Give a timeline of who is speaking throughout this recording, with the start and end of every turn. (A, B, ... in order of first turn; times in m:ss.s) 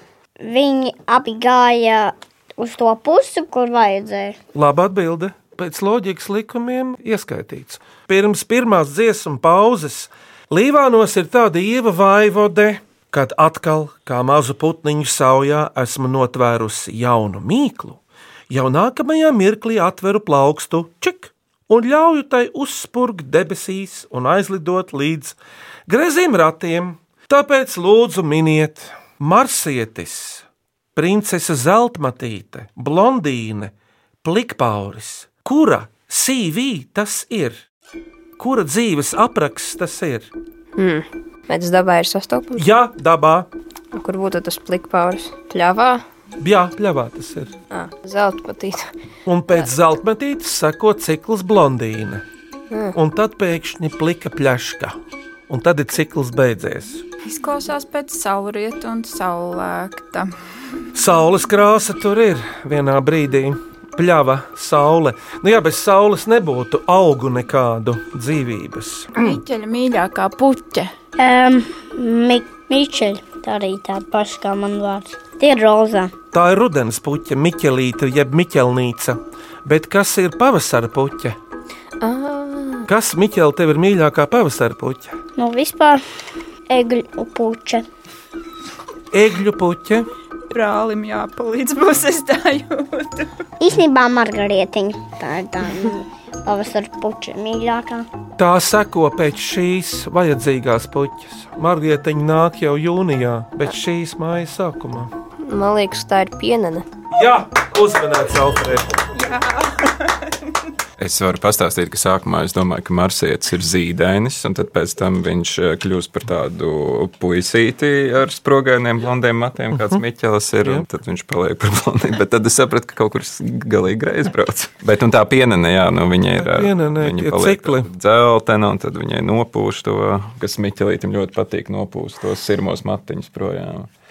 0:00.4-0:04.4 A
0:04.5-0:30.4 B
0:31.0-0:33.7 B
0:34.2-0:37.6 B
0:38.4-0:40.3 B
0:40.8-0:42.7 C
0:42.6-0:43.5 B
0:43.9-0:46.0 C
0:46.4-0:47.5 B
0:47.7-0:48.9 C
0:49.2-0:52.2 B
0:52.7-0:53.0 C
0:52.9-0:54.9 B
0:55.5-0:57.0 B
0:57.2-1:00.3 D
1:00.9-1:09.3 B
1:09.1-1:10.9 D
1:11.2-1:16.1 A
1:16.3-1:21.4 B
1:22.0-1:22.9 C
1:22.8-1:25.2 B
1:25.4-1:26.0 A
1:26.7-1:27.8 A
1:29.1-1:30.1 B
1:30.5-1:33.4 D
1:33.6-1:38.1 A
1:38.4-1:45.1 B
1:45.4-1:46.8 C
1:47.1-1:48.9 B
1:49.1-1:50.2 D
1:51.0-2:13.9 E
1:59.7-2:00.0 B
2:06.4-2:07.9 B